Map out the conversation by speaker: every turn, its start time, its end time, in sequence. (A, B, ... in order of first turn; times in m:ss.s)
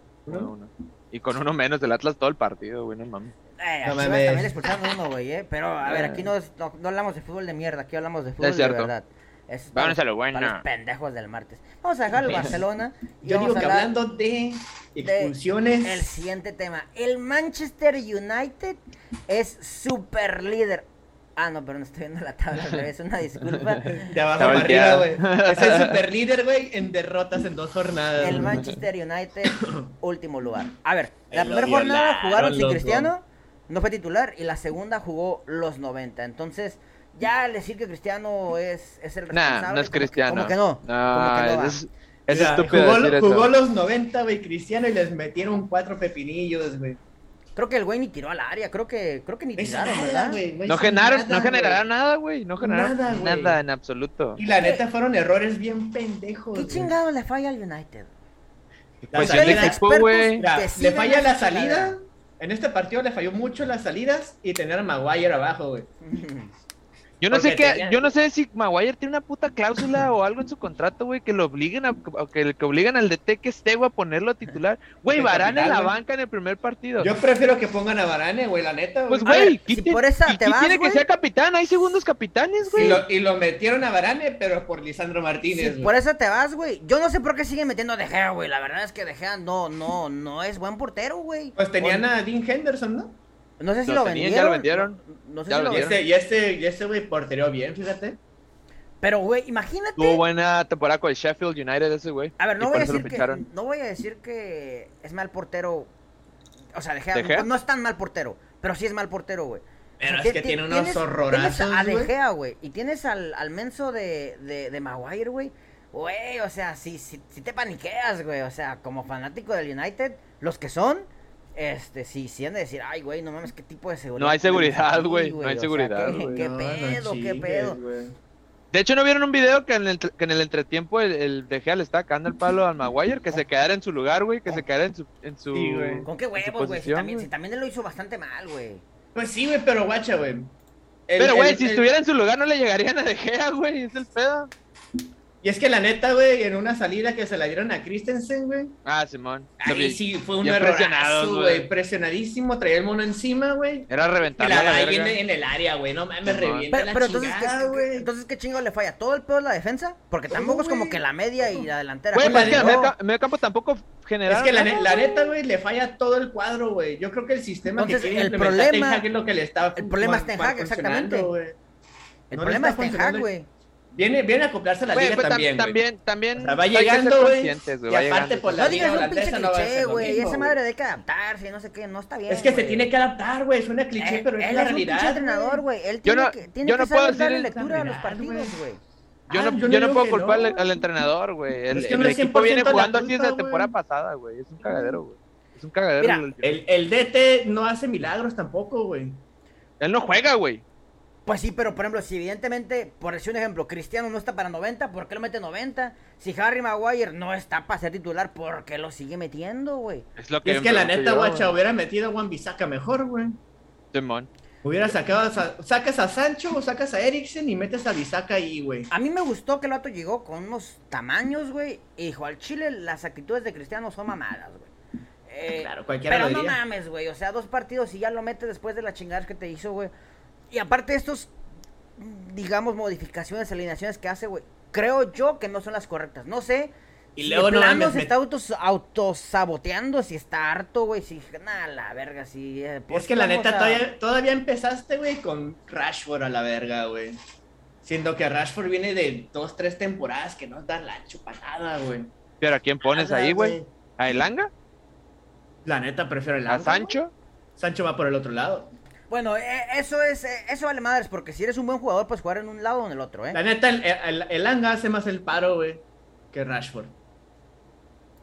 0:00.3-0:00.5 A
0:00.3-0:03.4 B
0:03.6-0:14.0 C
0:03.8-0:04.7 A
0:05.8-0:06.3 B
0:08.4-0:08.9 B
0:09.7-0:10.6 B
0:12.2-0:12.6 A
0:13.2-0:16.1 A
0:15.0-0:24.6 C
0:23.9-0:28.7 A
0:24.4-0:26.0 B
0:28.2-0:41.8 C
0:29.6-0:29.9 A
0:31.3-0:33.1 A
0:39.3-0:43.5 B
0:42.3-0:47.0 A
0:47.6-0:50.4 C
0:49.6-0:51.8 A
0:50.7-0:54.4 B
0:52.6-0:53.6 A
0:54.4-0:56.9 A
0:54.6-0:54.8 C
0:56.5-0:58.1 C
0:59.0-1:00.4 B
0:59.1-0:59.8 A
0:59.2-1:02.0 C
1:00.4-1:05.9 A
1:06.0-1:06.5 C
1:07.2-1:17.1 B
1:07.3-1:08.2 A
1:15.1-1:16.0 A
1:17.0-1:19.5 A
1:19.1-1:23.0 B
1:19.2-1:21.0 C
1:22.6-1:23.0 C
1:22.8-1:25.9 A
1:25.5-1:32.1 C
1:31.6-1:33.2 A
1:33.6-1:36.0 C
1:33.9-1:36.0 B
1:35.7-1:38.2 A
1:39.0-1:40.2 C
1:40.0-1:43.4 B
1:42.4-1:45.9 C
1:46.8-2:07.8 C
1:47.2-1:47.5 B
1:50.0-1:52.1 A
2:04.2-2:06.3 B
2:06.1-2:08.2 A
2:08.7-2:17.3 B
2:15.5-2:16.1 A
2:16.1-2:18.8 C
2:19.2-2:20.5 A
2:21.1-2:21.9 A
2:21.2-2:24.5 B
2:25.4-2:28.8 A
2:28.8-2:31.7 B
2:29.6-2:38.1 A
2:33.9-2:35.2 B
2:36.2-2:36.7 B
2:36.7-2:42.9 C
2:40.3-2:42.9 A
2:42.2-2:45.3 B
2:44.3-2:51.6 A
2:47.8-2:49.0 C
2:49.8-2:51.3 C
2:52.3-2:53.5 C
2:52.3-2:53.3 A
2:53.9-2:55.8 A
2:54.9-2:58.8 B
2:56.4-3:00.6 A
2:58.6-3:02.9 C
3:02.3-3:05.6 A
3:04.0-3:08.8 C
3:06.0-3:07.5 B
3:07.4-3:08.6 A
3:09.3-3:10.7 A
3:09.3-3:16.6 B
3:11.7-3:13.7 A
3:14.6-3:15.0 A
3:16.0-3:16.2 C
3:16.4-3:19.2 A
3:19.8-3:20.6 B
3:21.3-3:30.1 C
3:30.2-3:31.6 B
3:30.4-3:33.4 A
3:33.9-3:34.3 B
3:34.6-3:38.9 A
3:38.9-3:44.7 C
3:45.3-3:49.9 C
3:45.5-3:46.6 A
3:50.5-3:51.3 C
3:52.0-4:03.9 C
3:57.2-3:58.1 A
4:02.9-4:07.2 A
4:07.8-4:12.1 A
4:12.4-4:14.5 B
4:12.9-4:14.3 A
4:15.6-4:17.0 A
4:16.5-4:17.1 B
4:17.6-4:18.7 A
4:19.1-4:23.4 C
4:23.3-4:27.0 A